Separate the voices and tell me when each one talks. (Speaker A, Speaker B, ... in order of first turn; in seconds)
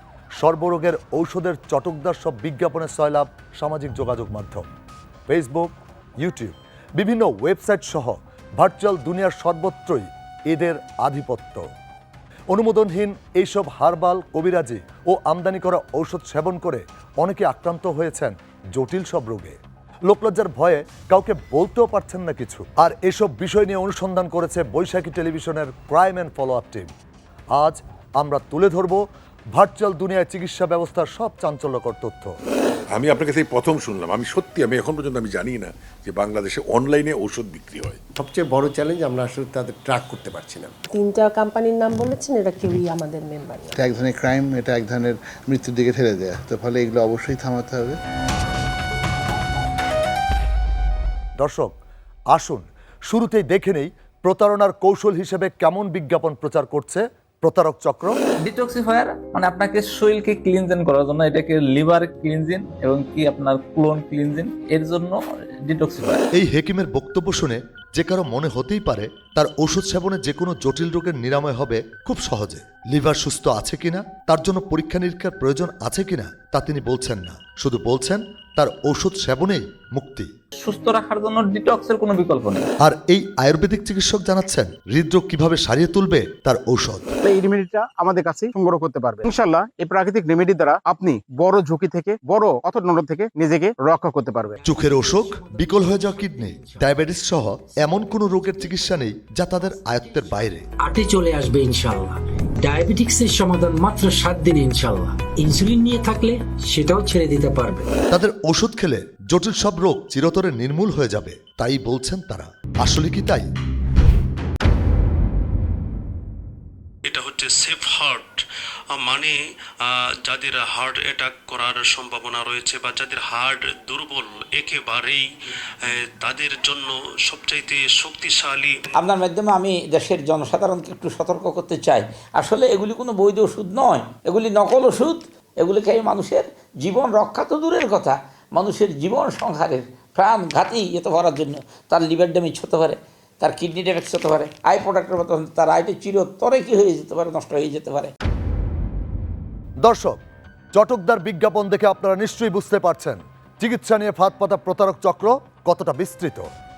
Speaker A: 0.4-4.7, 5.3-11.6, 12.5-19.6, 20.1-26.9, 27.6-29.0, 29.5-32.4, 51.4-51.8, 52.3-58.2, 66.3-80.3, 82.8-87.1, 94.6-100.7, 108.1-113.5, 149.8-150.2, 150.7-156.5
Speaker B: 32.9-38.0
Speaker C: 38.2-40.7
Speaker D: 40.9-43.8
Speaker E: 43.8-48.0
Speaker F: 58.4-66.2, 80.6-82.7
Speaker G: 87.2-94.6
Speaker H: 100.8-107.9
Speaker I: 117.1-125.2, 125.8-128.8
Speaker J: 129.0-148.1